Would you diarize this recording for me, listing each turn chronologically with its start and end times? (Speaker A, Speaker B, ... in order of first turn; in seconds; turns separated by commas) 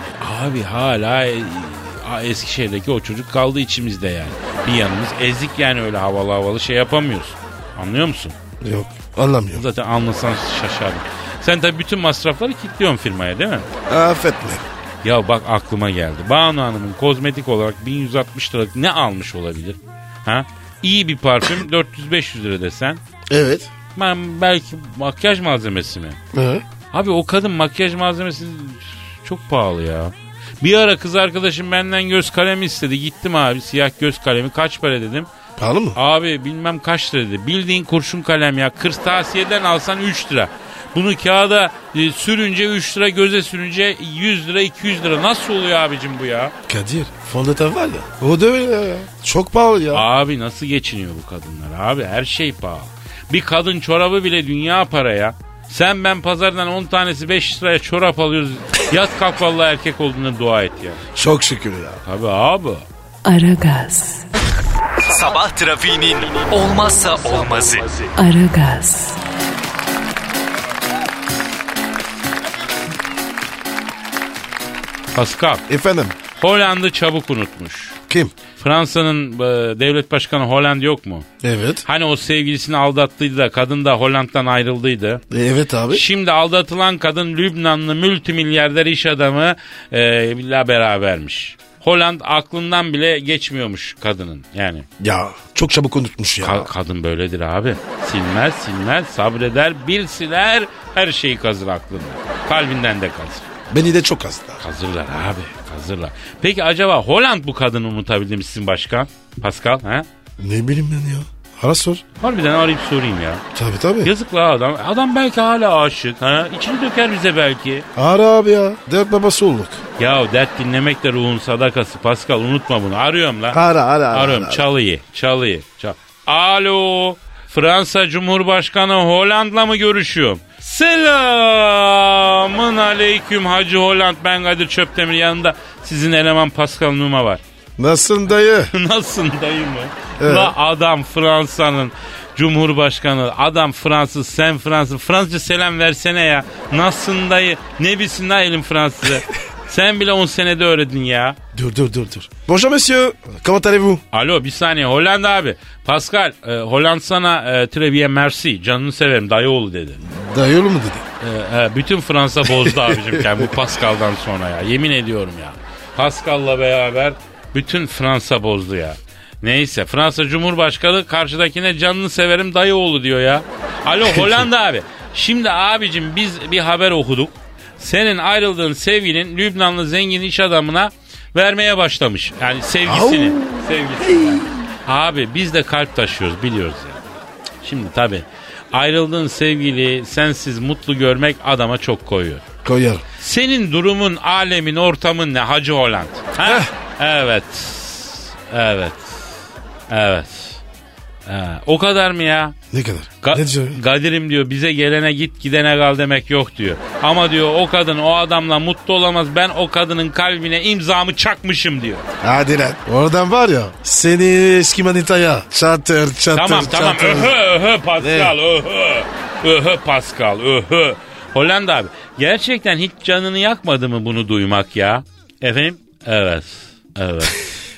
Speaker A: 0.2-8.4, Speaker B: 8.6-9.6, Speaker A: 9.5-13.7, Speaker B: 13.9-14.7, Speaker A: 15.0-23.0, Speaker B: 23.3-23.7, Speaker A: 23.9-26.2, Speaker B: 26.3-26.6, Speaker A: 26.9-35.3, Speaker B: 35.6-36.0, Speaker A: 36.0-46.5, Speaker B: 46.7-50.0, Speaker A: 49.9-61.0, Speaker B: 61.1-62.0, Speaker A: 62.0-62.9, Speaker C: 63.2-64.2, Speaker D: 65.0-68.1, Speaker C: 68.2-69.2, Speaker A: 75.1-75.6, Speaker B: 75.7-76.2, Speaker A: 76.4-78.0, Speaker A: 78.6-81.3, Speaker B: 81.4-81.8, Speaker A: 81.8-85.2, Speaker B: 85.3-86.0, Speaker A: 85.9-94.9, Speaker B: 95.0-96.7, Speaker A: 96.4-103.5, Speaker B: 103.7-104.6, Speaker A: 104.6-110.1, Speaker B: 110.4-112.0, Speaker A: 112.2-113.4, Speaker B: 113.5-114.1, Speaker A: 114.0-117.9, Speaker B: 118.0-119.8, Speaker A: 120.0-123.6, Speaker B: 123.5-124.6, Speaker A: 124.1-137.4, Speaker B: 137.8-138.7, Speaker A: 138.7-151.4, Speaker B: 140.2-140.5, Speaker B: 151.5-154.0, Speaker A: 154.1-160.0, Speaker B: 160.0-161.0, Speaker A: 161.2-187.0, Speaker B: 162.4-163.5, Speaker B: 174.0-174.4, Speaker B: 182.8-184.7, Speaker A: 187.6-192.4, Speaker B: 192.6-193.0, Speaker A: 193.2-199.2, Speaker B: 196.4-196.7, Speaker A: 199.9-200.6, Speaker A: 201.2-202.5, Speaker B: 202.7-203.8, Speaker A: 203.2-212.1, Speaker B: 212.2-217.3, Speaker A: 216.3-227.4, Speaker B: 218.0-218.3